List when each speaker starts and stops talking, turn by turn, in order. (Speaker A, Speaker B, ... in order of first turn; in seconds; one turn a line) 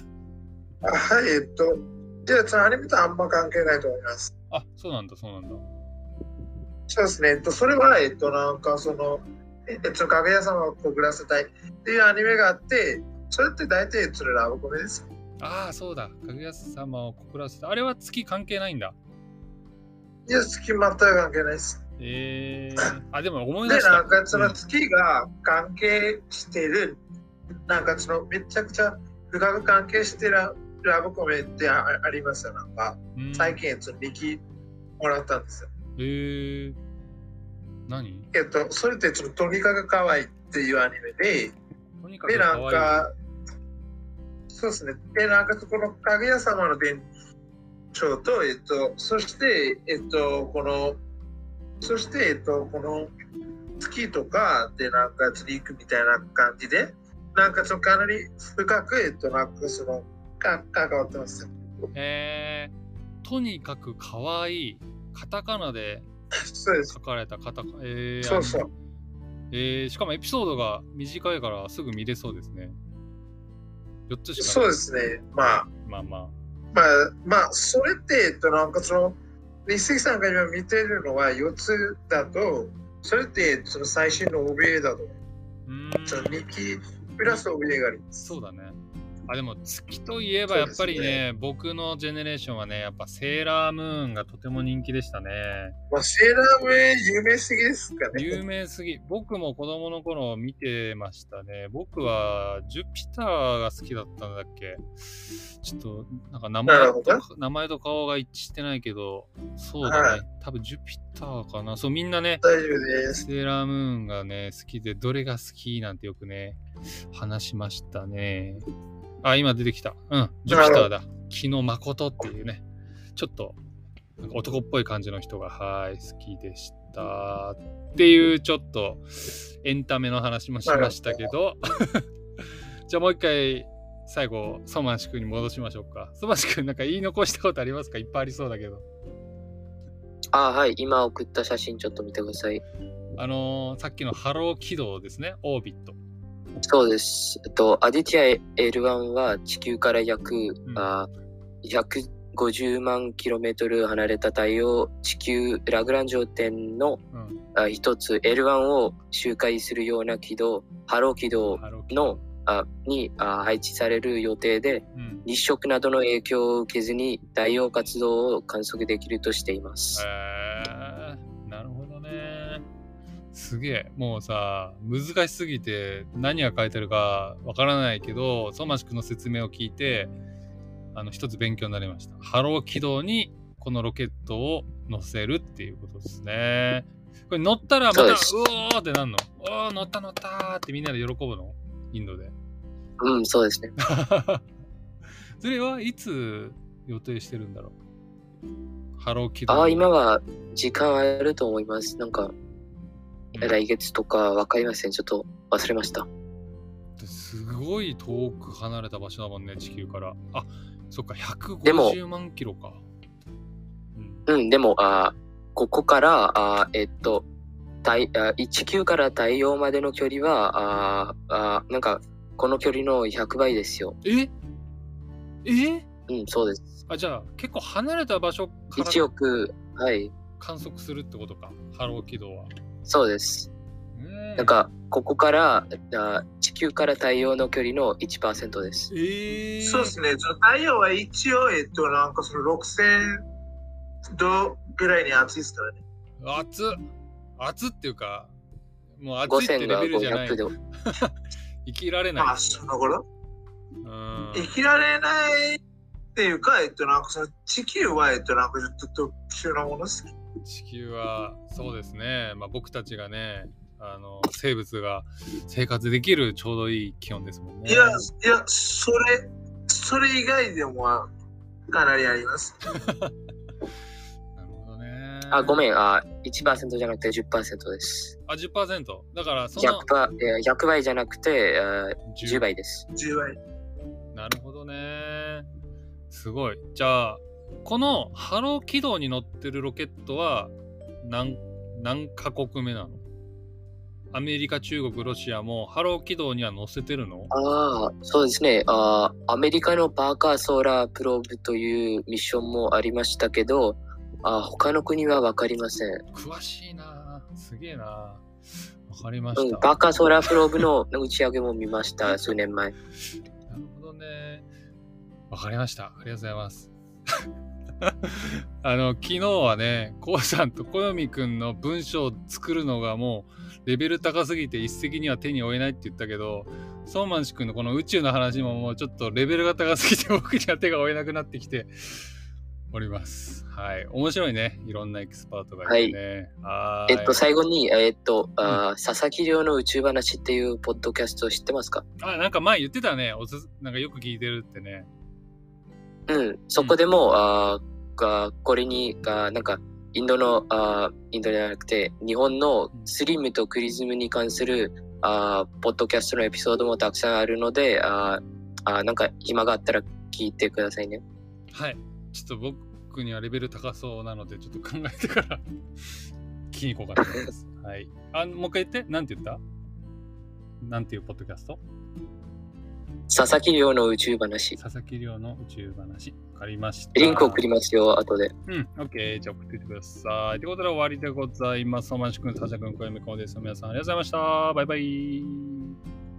Speaker A: 0.8-4.3
Speaker B: 4.5-5.6
Speaker A: 6.9-15.0
Speaker B: 15.4-18.9
Speaker A: 20.3-21.8
Speaker B: 22.0-24.6
Speaker A: 23.6-27.0
Speaker A: 27.7-34.4
Speaker B: 33.1-33.6
Speaker A: 35.0-35.7
Speaker B: 36.0-36.8
Speaker B: 37.9-38.3
Speaker A: 38.3-41.5
Speaker B: 42.0-43.0
Speaker A: 42.3-43.1
Speaker A: 44.5-47.1
Speaker A: 47.9-51.0
Speaker A: 51.8-53.1
Speaker A: 53.8-61.9
Speaker B: 61.9-66.1
Speaker A: 66.4-67.0
Speaker B: 66.9-68.7
Speaker A: 68.2-68.7
Speaker B: 69.5-72.8
Speaker B: 74.1-74.8
Speaker A: 74.4-75.7
Speaker B: 75.7-76.3
Speaker A: 76.7-85.1
Speaker B: 85.7-86.4
Speaker A: 86.0-88.3
Speaker B: 88.2-95.7
Speaker A: 90.5-91.2
Speaker A: 95.9-98.4
Speaker B: 98.1-112.4
Speaker A: 106.7-107.2
Speaker A: 109.8-110.2
Speaker A: 112.4-113.3
Speaker B: 113.2-118.7
Speaker B: 119.2-122.6
Speaker A: 120.5-120.9
Speaker B: 123.2-123.6
Speaker B: 124.2-138.8
Speaker A: 130.7-131.3
Speaker C: 140.3-142.6
Speaker B: 143.2-146.0
Speaker C: 146.6-151.1
Speaker C: 151.6-157.0
Speaker B: 157.1-157.4
Speaker C: 157.5-170.0
Speaker B: 161.6-162.2
Speaker B: 164.9-165.2
Speaker B: 169.9-172.6
Speaker B: 173.3-180.1
Speaker B: 180.9-192.3
Speaker C: 187.9-188.3
Speaker C: 193.0-193.7
Speaker B: 193.8-194.4
Speaker B: 195.4-197.7
Speaker B: 199.0-199.9
Speaker C: 199.5-202.3
Speaker C: 203.4-206.1
Speaker B: 207.0-212.8
Speaker C: 211.6-212.0
Speaker B: 213.9-214.3
Speaker C: 214.3-217.2
Speaker C: 217.8-223.9
Speaker B: 224.0-224.3
Speaker B: 225.4-225.8
Speaker C: 226.1-226.7
Speaker B: 226.9-229.1
Speaker C: 228.8-230.1
Speaker B: 230.4-232.5
Speaker C: 232.8-233.5
Speaker B: 233.9-234.5
Speaker C: 234.4-238.9
Speaker B: 238.9-239.9
Speaker A: 239.6-243.2
Speaker A: 244.2-245.8
Speaker B: 246.2-246.8
Speaker B: 247.4-248.3
Speaker B: 248.9-252.7
Speaker C: 249.3-250.5
Speaker A: 252.2-253.0
Speaker B: 253.8-254.5
Speaker A: 254.3-255.6
Speaker A: 256.1-260.1
Speaker B: 260.4-268.1
Speaker A: 267.6-271.1
Speaker A: 271.7-272.8
Speaker B: 272.7-273.1
Speaker B: 274.4-275.6
Speaker C: 275.3-278.1
Speaker B: 278.3-279.9
Speaker C: 279.6-282.9
Speaker B: 282.1-282.5
Speaker A: 282.9-283.4
Speaker B: 284.1-285.5
Speaker B: 286.1-293.0
Speaker B: 294.1-297.3
Speaker C: 297.3-306.0
Speaker B: 306.1-308.2
Speaker B: 308.9-310.7
Speaker C: 309.4-312.7
Speaker B: 313.5-314.4
Speaker B: 315.3-317.2
Speaker B: 317.8-332.1
Speaker B: 332.7-337.2
Speaker C: 335.7-335.9
Speaker C: 336.9-341.8
Speaker B: 342.0-344.9
Speaker C: 346.1-361.0
Speaker B: 361.5-369.4
Speaker B: 370.6-371.6
Speaker C: 373.1-374.6
Speaker B: 374.6-377.4
Speaker C: 376.9-378.3
Speaker B: 378.5-385.8